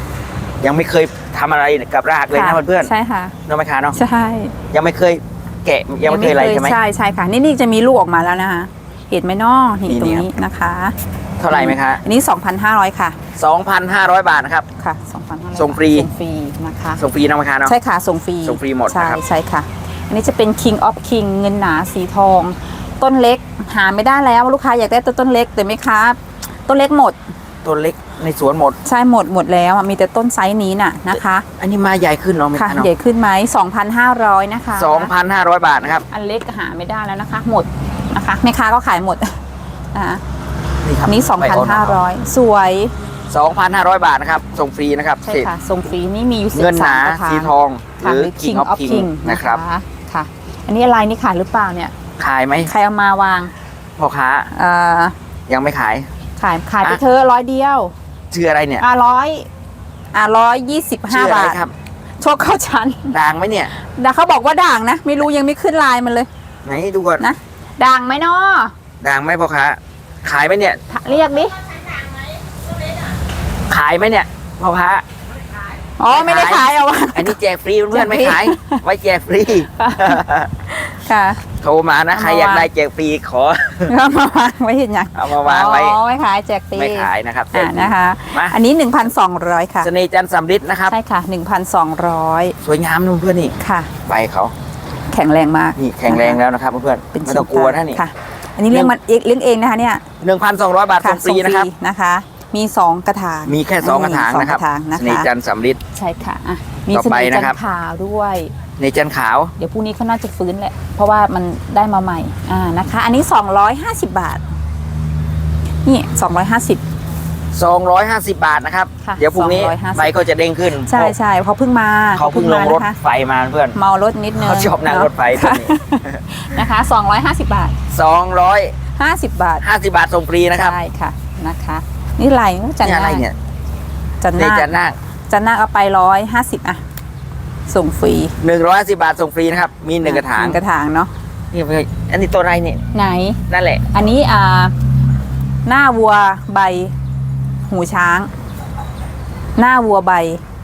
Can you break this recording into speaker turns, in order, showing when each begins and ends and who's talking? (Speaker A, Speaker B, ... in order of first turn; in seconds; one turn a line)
Speaker A: 0.6-2.9
Speaker B: 2.3-3.4
Speaker A: 3.5-4.0
Speaker B: 4.0-4.5
Speaker A: 4.7-6.8
Speaker B: 6.1-10.9
Speaker A: 9.9-10.3
Speaker A: 11.4-12.0
Speaker B: 11.5-13.2
Speaker A: 13.4-14.7
Speaker B: 14.8-17.0
Speaker A: 15.6-16.1
Speaker A: 17.0-17.7
Speaker B: 17.6-27.2
Speaker A: 18.4-19.2
Speaker A: 27.6-28.8
Speaker B: 28.9-31.5
Speaker A: 31.6-32.9
Speaker B: 32.6-35.1
Speaker A: 34.7-36.1
Speaker B: 36.1-39.4
Speaker B: 39.9-40.2
Speaker A: 40.8-42.0
Speaker B: 41.1-42.9
Speaker A: 43.3-45.5
Speaker B: 45.2-51.9
Speaker A: 46.5-49.6
Speaker A: 52.2-52.7
Speaker B: 52.7-53.5
Speaker A: 54.0-54.5
Speaker B: 54.5-55.1
Speaker A: 55.5-56.1
Speaker B: 56.4-57.9
Speaker A: 58.3-58.9
Speaker B: 58.8-59.5
Speaker B: 60.1-61.6
Speaker A: 61.1-61.7
Speaker B: 62.2-63.1
Speaker A: 63.1-63.7
Speaker B: 63.8-66.3
Speaker A: 66.7-67.3
Speaker B: 67.2-68.7
Speaker A: 69.0-70.8
Speaker B: 70.9-71.5
Speaker A: 73.7-75.0
Speaker B: 76.0-77.4
Speaker A: 76.1-80.5
Speaker B: 77.9-78.8
Speaker B: 79.8-81.4
Speaker A: 81.6-83.9
Speaker B: 82.1-82.7
Speaker B: 83.9-89.9
Speaker A: 85.1-86.0
Speaker A: 86.8-88.6
Speaker A: 89.8-91.0
Speaker B: 90.9-92.6
Speaker A: 92.6-94.5
Speaker B: 93.6-93.9
Speaker B: 95.1-96.4
Speaker A: 95.8-98.0
Speaker B: 97.1-100.1
Speaker A: 100.2-101.7
Speaker B: 101.0-105.3
Speaker A: 103.5-105.8
Speaker B: 106.0-108.5
Speaker A: 106.9-107.6
Speaker A: 108.8-109.5
Speaker B: 109.6-114.4
Speaker B: 115.8-116.8
Speaker A: 117.5-121.1
Speaker B: 119.0-120.1
Speaker B: 120.9-123.0
Speaker A: 122.2-123.8
Speaker B: 123.8-127.8
Speaker A: 124.3-126.2
Speaker A: 127.9-128.7
Speaker B: 129.0-129.7
Speaker A: 129.6-130.8
Speaker B: 130.5-133.2
Speaker A: 132.8-133.3
Speaker B: 134.2-134.7
Speaker A: 134.4-135.0
Speaker B: 135.3-136.8
Speaker B: 137.7-138.3
Speaker A: 138.4-140.6
Speaker B: 140.0-141.1
Speaker A: 141.5-142.8
Speaker B: 142.9-144.7
Speaker A: 143.5-143.8
Speaker B: 145.7-146.9
Speaker B: 147.7-148.3
Speaker B: 149.6-150.4